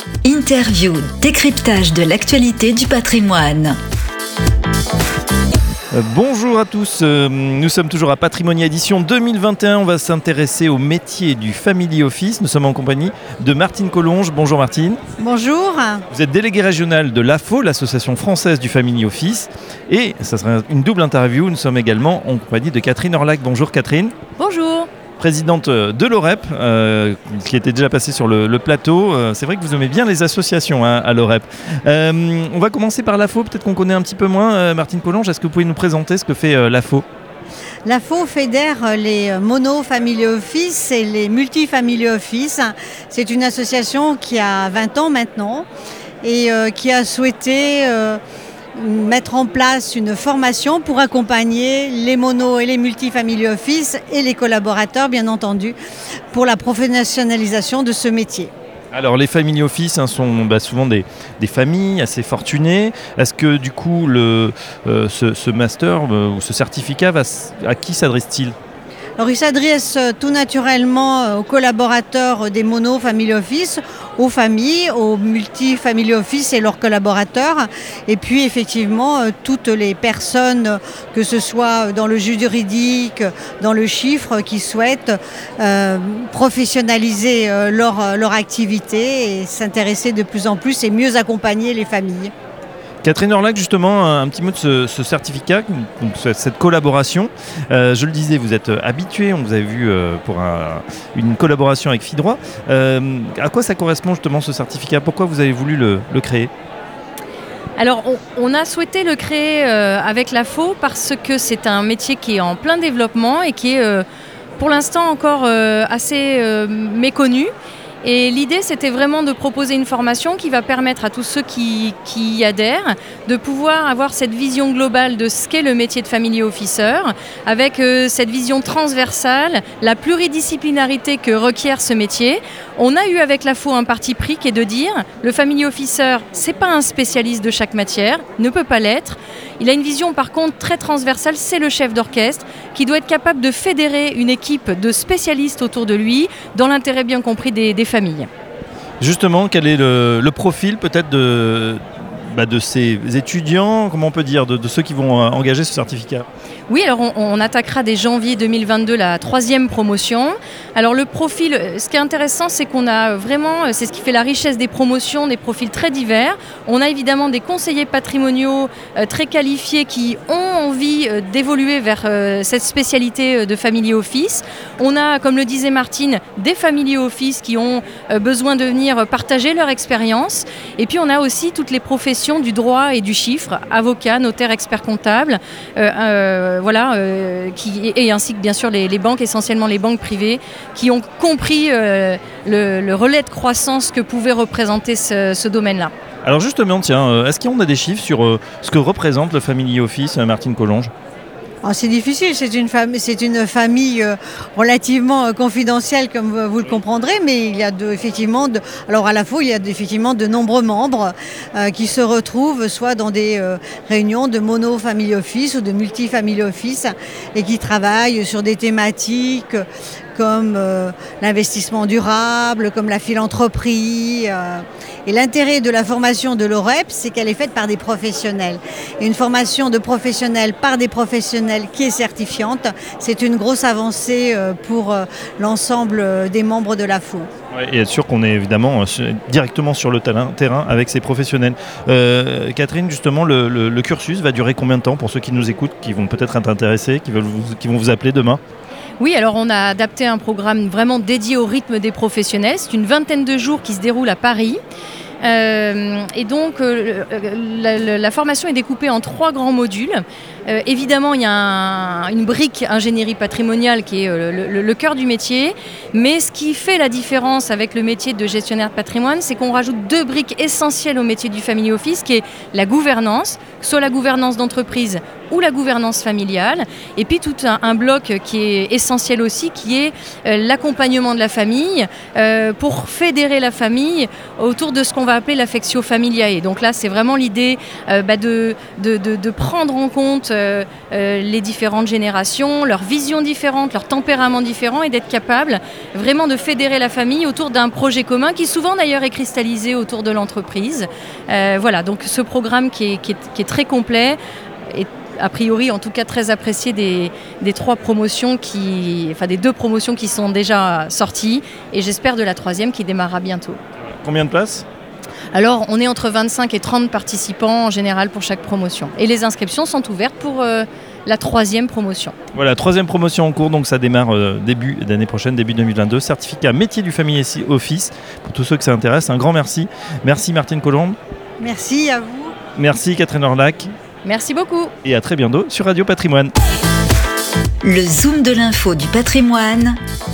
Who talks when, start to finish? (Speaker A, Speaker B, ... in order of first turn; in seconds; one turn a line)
Speaker A: 0.2-3.8
Speaker B: 5.9-15.0
Speaker C: 15.2-16.0
Speaker B: 16.1-24.1
Speaker D: 24.4-24.9
Speaker B: 25.2-37.0
Speaker C: 37.8-45.7
Speaker C: 46.2-48.2
Speaker C: 48.8-55.8
Speaker C: 56.3-58.5
Speaker B: 58.9-68.5
Speaker C: 69.2-92.3
Speaker B: 93.0-106.5
Speaker D: 107.8-114.0
Speaker D: 114.6-117.5
Speaker D: 118.0-148.3
Speaker B: 149.0-156.3
Speaker D: 156.7-195.9
Speaker B: 196.2-200.9
Speaker C: 201.6-237.3
Speaker B: 237.5-248.4
Speaker D: 249.0-254.6
Speaker D: 255.2-304.2
Speaker D: 304.7-313.6
Speaker B: 314.0-314.7
Speaker D: 315.3-322.1
Speaker B: 322.3-331.0
Speaker C: 331.4-332.4
Speaker B: 332.6-333.7
Speaker D: 334.0-334.7
Speaker B: 334.8-336.3
Speaker A: 337.6-339.8